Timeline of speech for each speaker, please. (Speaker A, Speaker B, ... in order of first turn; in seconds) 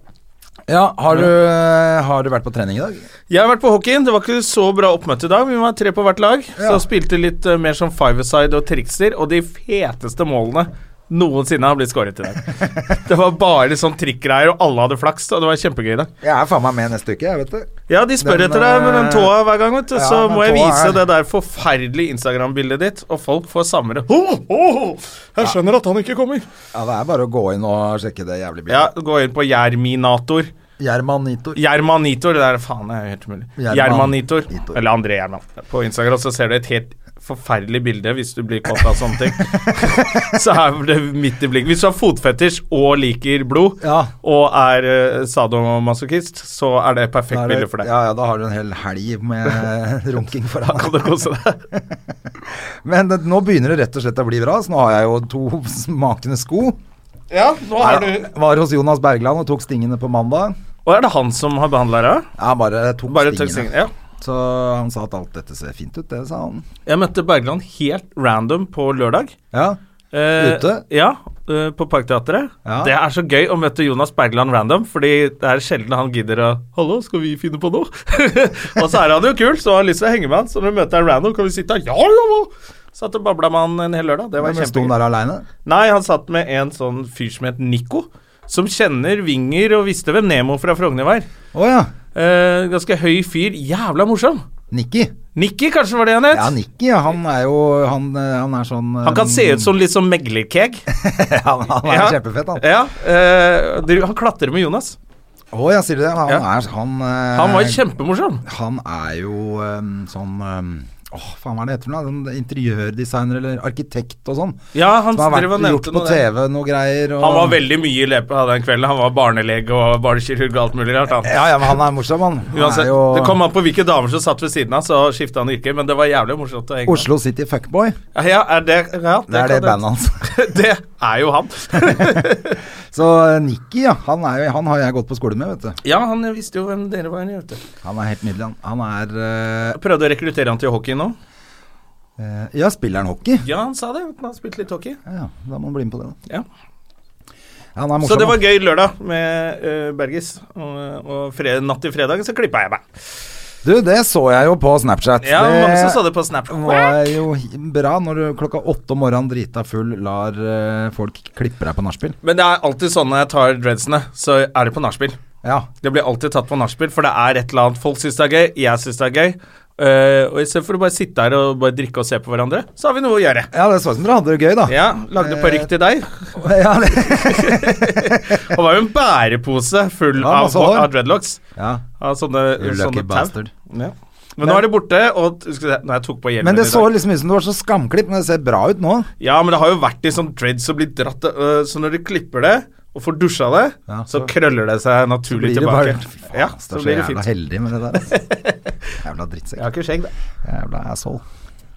Speaker A: 0.7-3.0, 6.6-6.8, 16.2-19.4, 19.9-21.0, 26.7-28.9, 30.8-31.6, 33.6-34.8, 39.6-40.3, 43.8-44.1, 47.3-51.1, 51.7-56.8, 57.8-60.6, 62.4-66.7, 69.5-69.8, 70.3-70.8, 72.7-72.9, 84.4-85.5, 91.5-91.9, 94.7-95.2, 96.3-99.7, 100.9-102.7, 105.5-107.8, 108.4-114.6, 115.1-117.6, 121.2-123.4, 126.9-128.0, 129.3-130.3, 132.0-132.3, 132.9-135.8, 137.8-139.8, 142.2-143.5, 145.1-146.2, 147.8-148.4, 153.6-162.2, 165.4-165.7, 173.5-175.7, 176.3-178.6, 180.2-180.9, 181.6-181.8, 182.6-183.5, 184.4-184.7, 186.4-189.1, 193.9-194.3, 195.3-198.2, 199.0-199.6, 200.4-201.2
Speaker B: 3.3-16.1, 17.9-26.5, 28.7-30.5, 31.6-47.9, 50.6-51.6, 57.3-58.3, 60.9-62.3, 63.1-63.9, 66.9-69.3, 70.1-84.9, 85.6-91.3, 92.2-94.4, 95.3-96.5, 99.0-100.8, 101.9-105.0, 107.3-108.4, 114.7-116.2, 117.2-121.4, 122.5-127.1, 128.2-132.6, 135.8-137.6, 139.7-141.2, 143.4-145.0, 148.0-152.8, 155.2-157.2, 162.2-165.2, 165.8-173.5, 174.7-176.4, 177.0-181.4, 182.0-186.9, 189.2-197.2, 198.1-198.6, 199.6-200.1